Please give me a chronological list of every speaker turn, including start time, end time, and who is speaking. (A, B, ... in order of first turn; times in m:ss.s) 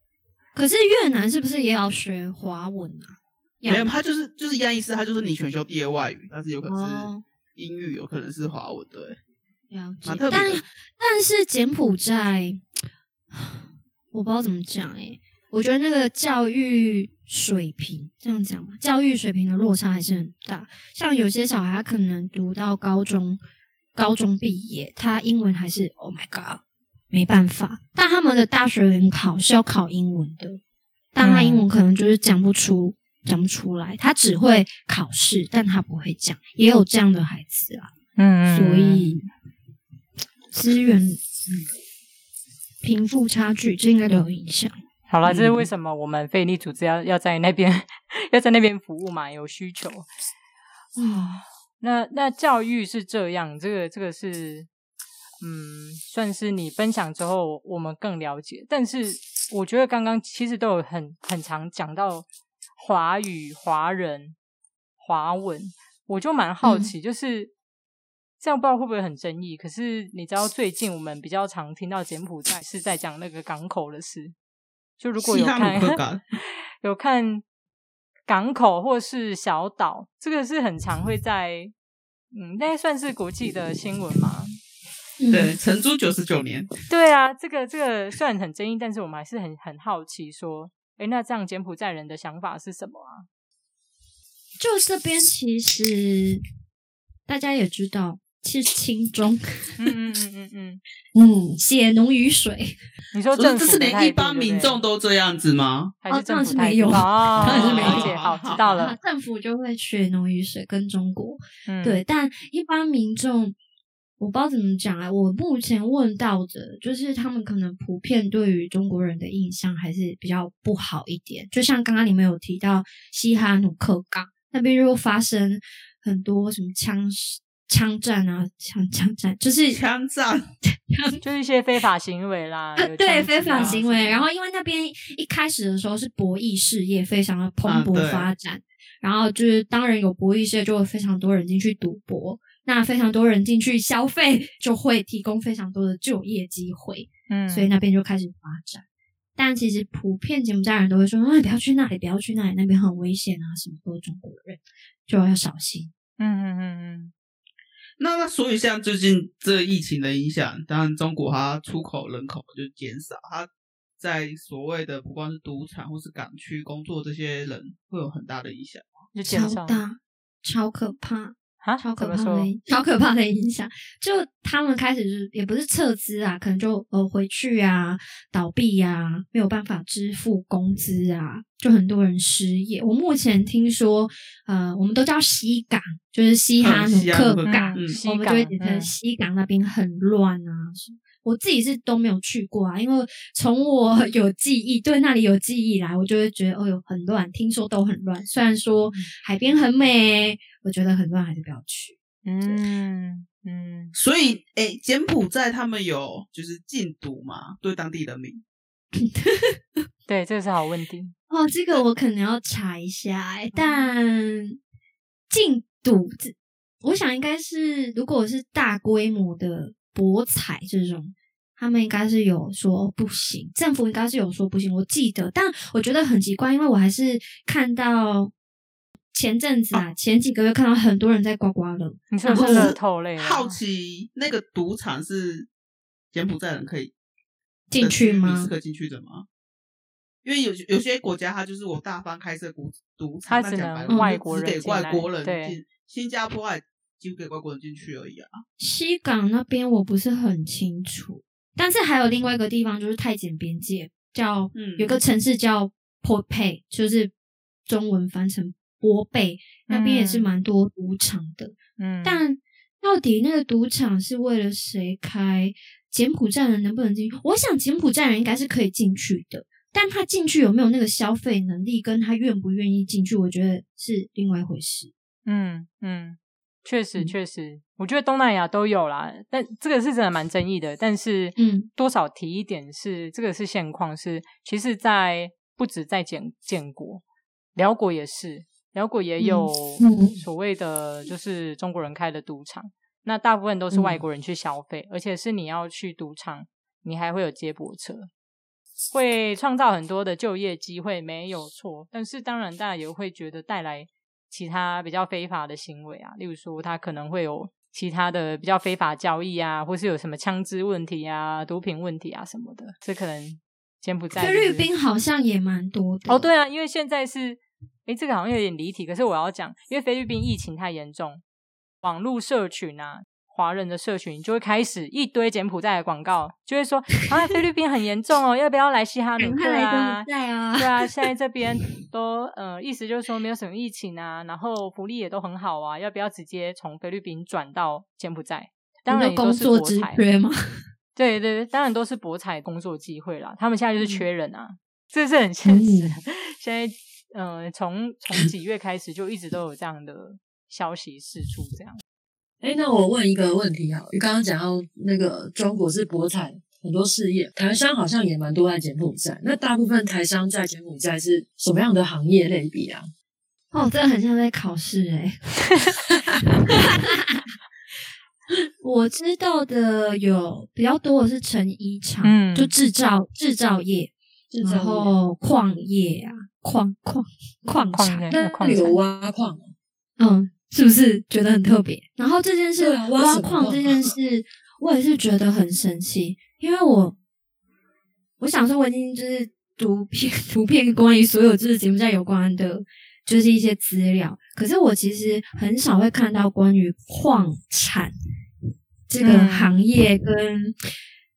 0:00.5-0:03.9 A
0:03.6-0:09.2 B
0:06.6-0:07.2 A
0:09.7-0:12.6 A
0:10.0-0:10.6 B
0:13.3-0:23.4 A
0:24.0-0:30.6 A
0:31.1-0:37.9 A
0:31.2-0:31.6 C
0:38.2-0:39.2 C
0:38.5-0:39.3 A
0:40.5-0:41.2 A
0:42.8-0:44.8 A
0:45.1-0:50.1 C
0:51.0-0:51.4 A
0:51.0-0:54.7 C
0:55.4-1:02.2 C
1:02.8-1:04.3 C
1:05.0-1:07.5 C
1:06.6-1:06.9 A
1:08.4-1:14.3 C
1:15.0-1:17.4 C
1:15.2-1:16.2 B
1:18.3-1:21.7 C
1:22.3-1:24.5 C
1:25.2-1:25.5 A
1:25.3-1:26.7 B
1:26.9-1:33.2 C
1:34.6-1:36.4 A
1:37.3-1:39.8 A
1:39.8-1:40.8 C
1:41.1-1:41.6 D
1:41.6-1:42.8 A
1:43.1-1:44.8 C
1:43.4-1:45.9 B
1:46.0-1:49.0 C
1:46.1-1:53.5 A
1:47.3-1:48.6 B
1:51.7-1:52.0 C
1:54.2-2:09.8 A
2:09.7-2:10.5 B
2:10.7-2:11.2 A
2:11.2-2:14.2 C
2:12.8-2:28.8 A
2:17.6-2:18.3 B
2:27.3-2:27.7 C
2:29.4-2:35.9 A
2:36.2-2:37.1 C
2:38.0-2:43.5 B
2:44.0-2:49.1 B
2:49.1-2:49.8 C
2:49.2-3:22.6 A
2:51.6-2:52.5 C
3:06.6-3:08.0 B
3:07.4-3:08.9 C
3:22.2-3:23.9 C
3:23.9-3:28.4 B
3:29.0-3:29.6 A
3:30.1-3:31.1 C
3:31.3-3:34.6 A
3:35.3-3:48.3 A
3:49.1-3:52.7 A
3:52.1-3:53.6 C
3:52.3-3:55.5 B
3:56.1-3:56.9 B
3:57.7-3:58.5 A
3:57.8-3:59.2 B
4:00.2-4:08.4 B
4:03.3-4:05.6 C
4:03.9-4:04.2 A
4:08.6-4:17.1 A
4:14.5-4:15.0 B
4:17.7-4:34.9 A
4:19.7-4:20.3 C
4:21.8-4:22.2 C
4:35.2-4:47.0 C
4:41.4-4:41.7 A
4:47.6-4:58.1 C
4:49.2-4:49.5 A
4:49.8-4:50.2 D
4:53.7-4:54.0 D
4:58.9-5:14.6 C
5:14.1-5:16.3 A
5:16.1-5:21.2 C
5:21.8-5:40.0 C
5:29.2-5:30.9 A
5:38.9-5:40.4 A
5:40.9-5:51.8 C
5:45.4-5:46.0 D
5:52.4-6:02.9 D
6:03.5-6:05.2 A
6:06.3-6:07.3 A
6:08.6-6:18.1 A
6:12.0-6:12.5 C
6:14.3-6:14.9 D
6:17.7-6:18.8 C
6:18.1-6:19.5 D
6:20.0-6:27.0 A
6:22.6-6:23.9 D
6:28.2-6:37.9 A
6:38.9-6:40.6 A
6:39.0-6:39.6 C